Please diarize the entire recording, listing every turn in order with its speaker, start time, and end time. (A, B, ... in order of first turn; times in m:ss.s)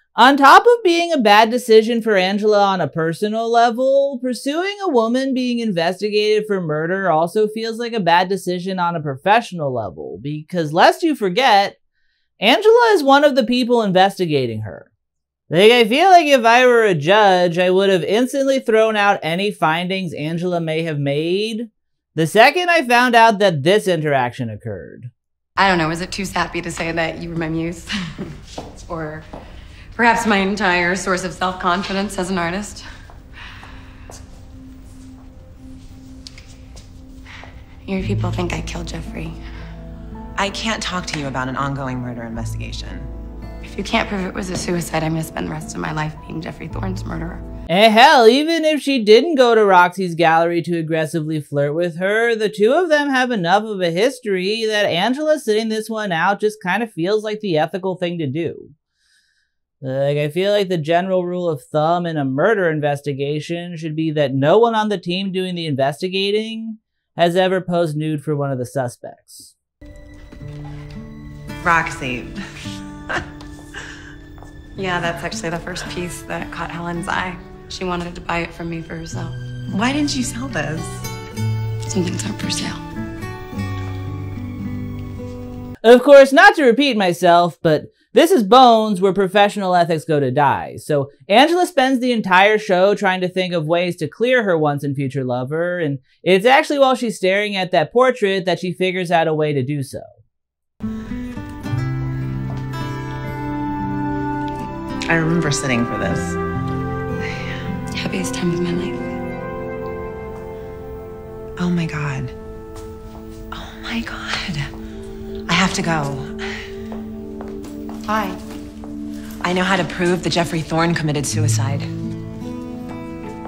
0:00.2-0:11.8 A
0:12.4-0:14.9 A
0:15.5-0:25.1 A
0:25.6-0:27.9 B
0:28.7-0:29.2 B
0:29.9-0:32.8 B
0:37.8-0:39.4 B
0:40.4-0:43.1 C
0:43.6-0:47.4 B
0:47.7-0:58.7 A
0:59.8-1:09.5 A
1:11.6-1:12.4 C
1:14.8-1:19.4 B
1:19.7-1:21.0 C
1:21.8-1:22.8 B
1:25.8-1:40.2 A
1:45.0-1:46.4 C
1:47.9-1:49.0 B
1:51.6-1:52.3 C
1:53.5-1:54.7 C
1:55.5-1:56.4 C
1:59.4-2:01.9 C